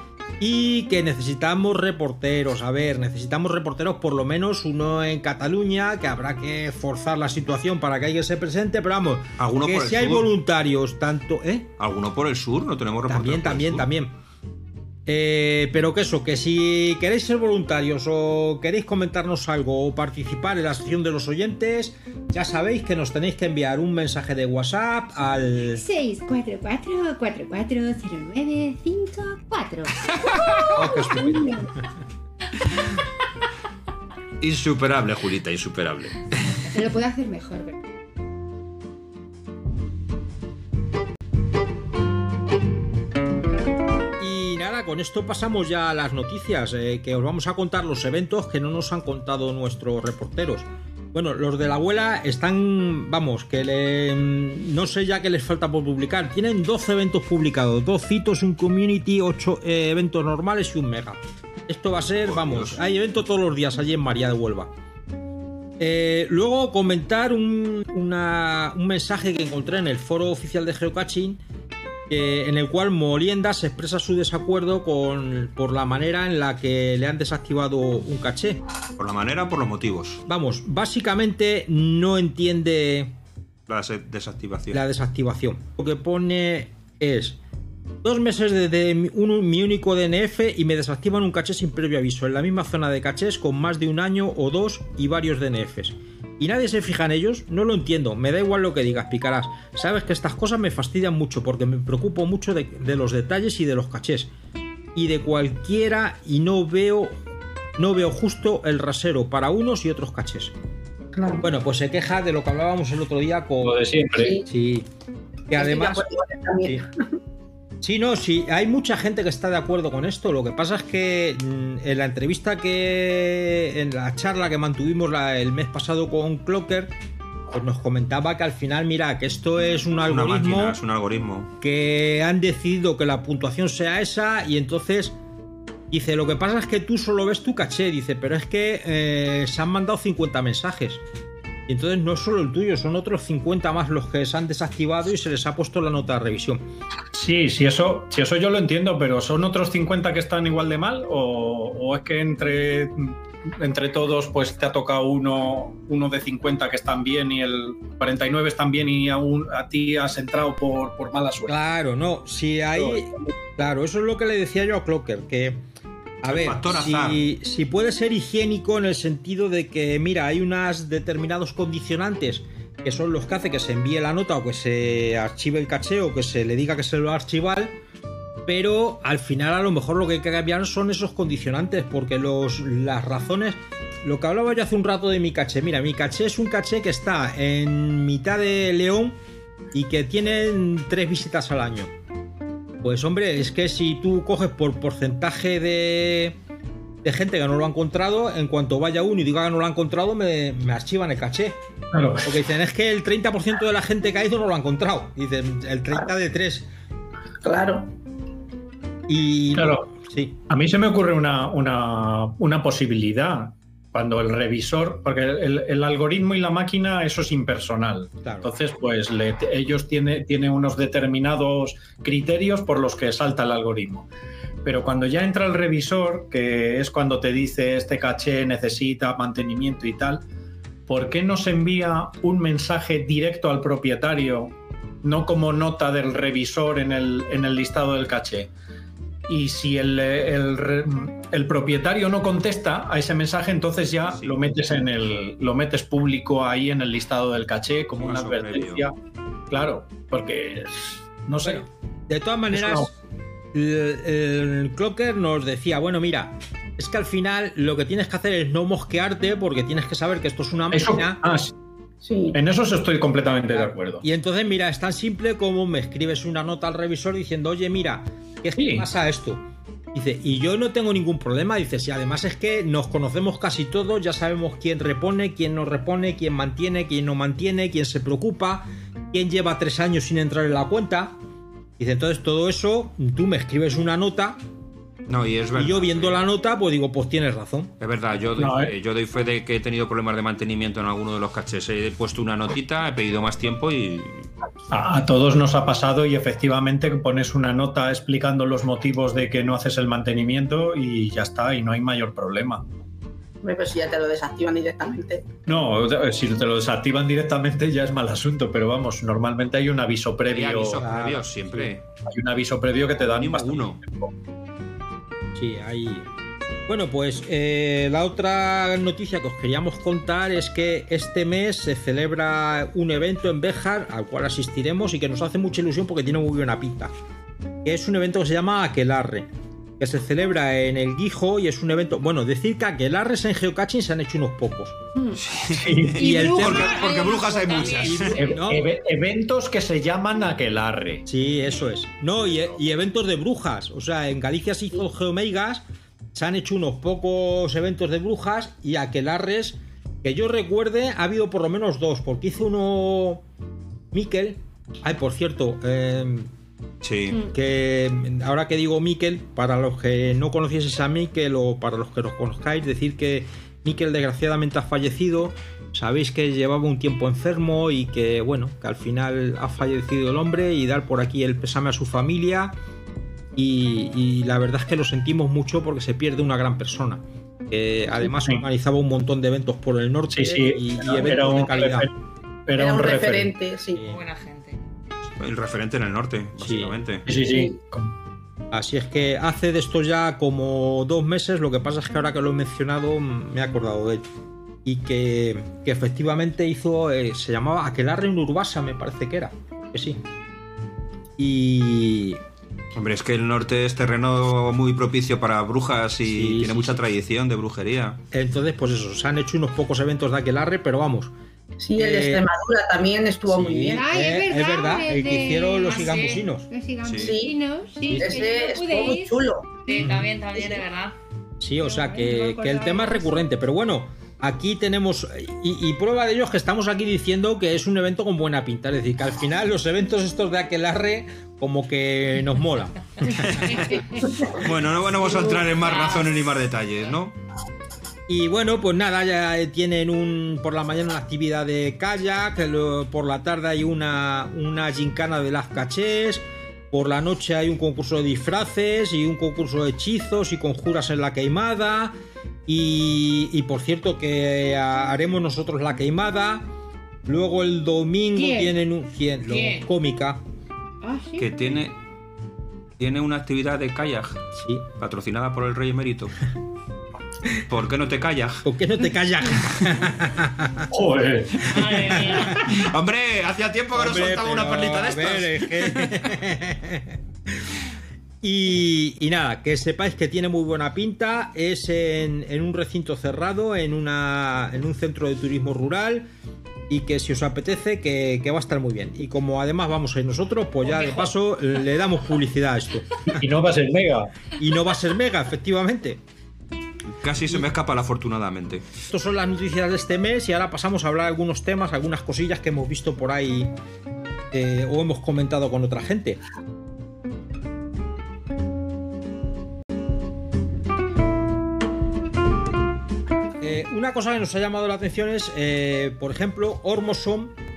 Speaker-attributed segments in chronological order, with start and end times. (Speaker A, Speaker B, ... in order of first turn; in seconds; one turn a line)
Speaker A: 0.4-11.7
Speaker B: 9.4-10.3
Speaker B: 11.8-13.9
Speaker A: 13.1-14.1
Speaker A: 15.1-25.8
Speaker C: 25.7-31.7
Speaker A: 30.8-31.5
Speaker B: 34.4-36.3
Speaker C: 36.7-37.8
Speaker A: 44.2-64.7
Speaker B: 62.2-62.8
Speaker A: 65.8-71.4
Speaker A: 72.1-78.6
Speaker B: 79.0-80.2
Speaker A: 80.3-83.1
Speaker B: 83.7-84.8
Speaker A: 84.7-87.3
Speaker A: 88.0-104.3
Speaker A: 105.0-107.2
Speaker A: 107.8-110.5
Speaker D: 111.1-111.5
Speaker A: 111.4-113.9
Speaker E: 113.6-114.4
Speaker D: 114.2-114.4
Speaker A: 114.5-114.9
Speaker A: 115.5-116.0
Speaker D: 115.5-116.9
Speaker A: 117.8-126.9
Speaker A: 127.5-130.8
Speaker B: 130.0-131.5
Speaker A: 131.6-135.2
Speaker A: 135.9-141.0
Speaker A: 141.7-146.6
Speaker E: 147.1-161.6
Speaker A: 161.5-165.6
Speaker E: 162.7-163.1
Speaker A: 166.2-177.7
Speaker B: 166.3-167.2
Speaker A: 178.4-189.2
Speaker A: 189.7-191.9
Speaker A: 192.8-196.4
Speaker A: 197.0-201.6
Speaker E: 201.9-202.3
Speaker A: 202.2-206.7
Speaker D: 207.4-207.9
Speaker A: 209.1-210.4
Speaker E: 209.5-209.8
Speaker E: 210.5-224.1
Speaker A: 218.2-218.5
Speaker E: 224.6-230.2
Speaker E: 230.9-238.5
Speaker E: 239.3-248.9
Speaker B: 244.1-244.4
Speaker B: 248.0-248.9
Speaker E: 249.5-251.7
Speaker A: 251.4-252.9
Speaker E: 252.5-252.9
Speaker A: 253.5-261.2
Speaker E: 260.7-261.5
Speaker D: 262.0-262.4
Speaker E: 262.3-264.0
Speaker A: 263.5-269.4
Speaker E: 268.6-268.9
Speaker A: 269.9-281.2
Speaker A: 281.8-284.4
Speaker B: 285.1-286.2
Speaker A: 285.5-287.7
Speaker B: 287.8-294.3
Speaker E: 288.4-288.7
Speaker E: 294.7-302.6
Speaker D: 303.4-305.3
Speaker E: 305.5-310.9
Speaker B: 310.3-311.8
Speaker A: 310.8-311.7
Speaker E: 312.0-314.1
Speaker B: 313.1-313.8
Speaker A: 315.4-316.1
Speaker A: 316.7-326.9
Speaker A: 327.6-329.3
Speaker A: 329.8-334.8
Speaker B: 335.1-338.2
Speaker E: 335.5-335.9
Speaker C: 336.0-338.2
Speaker A: 336.0-336.7
Speaker F: 336.6-338.1
Speaker A: 337.9-338.7
Speaker E: 338.1-341.0
Speaker A: 341.1-345.6
Speaker A: 346.1-353.2
Speaker A: 353.9-356.3
Speaker B: 356.8-357.2
Speaker A: 357.3-372.5
Speaker A: 373.4-381.9
Speaker E: 378.1-378.4
Speaker E: 380.1-381.9
Speaker E: 382.5-383.3
Speaker D: 382.6-383.8
Speaker F: 383.8-384.6
Speaker B: 385.2-387.1
Speaker A: 386.4-386.7
Speaker E: 387.1-387.9
Speaker A: 388.5-394.0
Speaker A: 394.6-400.0
Speaker A: 401.2-402.2
Speaker B: 402.8-408.0
Speaker A: 406.0-406.8
Speaker A: 408.1-411.1
Speaker D: 411.6-413.9
Speaker A: 411.8-412.3
Speaker A: 413.3-416.4
Speaker C: 413.7-419.9
Speaker F: 415.6-416.2
Speaker B: 416.8-417.2
Speaker D: 417.0-417.4
Speaker A: 417.9-418.2
Speaker D: 417.9-419.5
Speaker F: 419.6-420.9
Speaker A: 419.8-420.1
Speaker A: 421.4-433.5
Speaker C: 421.6-423.1
Speaker B: 433.0-437.1
Speaker F: 435.6-436.1
Speaker A: 438.1-451.9
Speaker A: 452.5-456.4
Speaker A: 457.1-460.2
Speaker C: 458.1-458.5
Speaker C: 460.8-461.4
Speaker B: 461.2-461.8
Speaker B: 462.8-464.2
Speaker A: 464.3-464.6
Speaker B: 464.8-466.1
Speaker B: 467.5-468.4
Speaker A: 468.4-470.7
Speaker E: 470.7-471.8
Speaker F: 471.5-472.6
Speaker A: 471.7-472.5
Speaker B: 472.5-476.1
Speaker A: 473.7-477.5
Speaker A: 478.2-486.1
Speaker A: 486.7-492.9
Speaker F: 490.7-491.0
Speaker E: 493.1-494.1
Speaker A: 494.4-496.0
Speaker B: 496.9-498.6
Speaker A: 498.9-503.5
Speaker A: 504.3-506.2
Speaker A: 513.4-517.3